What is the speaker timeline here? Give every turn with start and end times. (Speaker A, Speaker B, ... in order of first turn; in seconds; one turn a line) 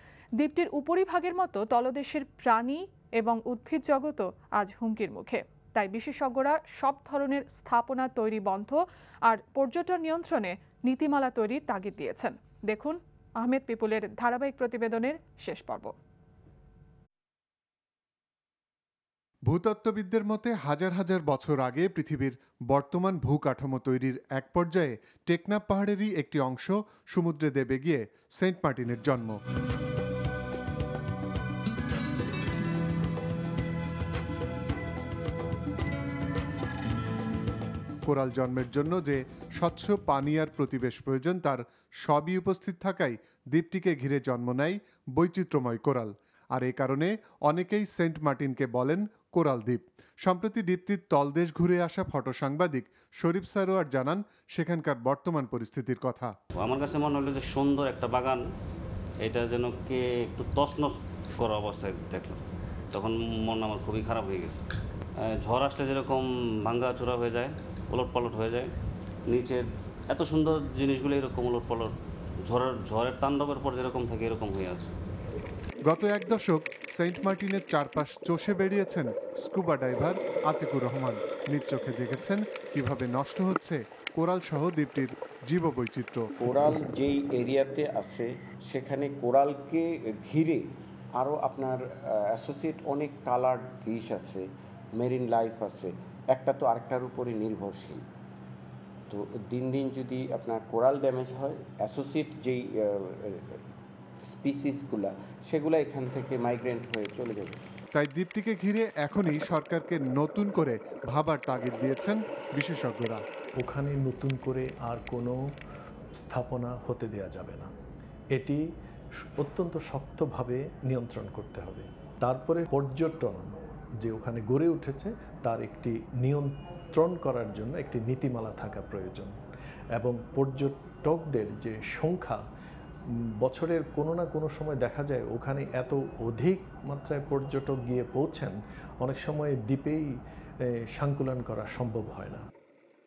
Speaker A: 0.4-15.9
Speaker B: 19.5-29.4
Speaker B: 38.0-56.3
Speaker C: 56.6-58.4
Speaker C: 59.2-62.4
Speaker C: 62.9-64.6
Speaker C: 65.2-68.7
Speaker C: 69.3-71.9
Speaker C: 72.4-74.9
Speaker B: 75.8-86.3
Speaker D: 86.4-98.0
Speaker D: 99.1-103.6
Speaker D: 104.3-107.6
Speaker B: 107.9-113.2
Speaker E: 113.6-115.4
Speaker E: 116.2-117.7
Speaker E: 118.3-118.6
Speaker E: 119.4-129.3
Speaker E: 130.0-132.4
Speaker E: 133.4-140.1
Speaker E: 140.9-142.4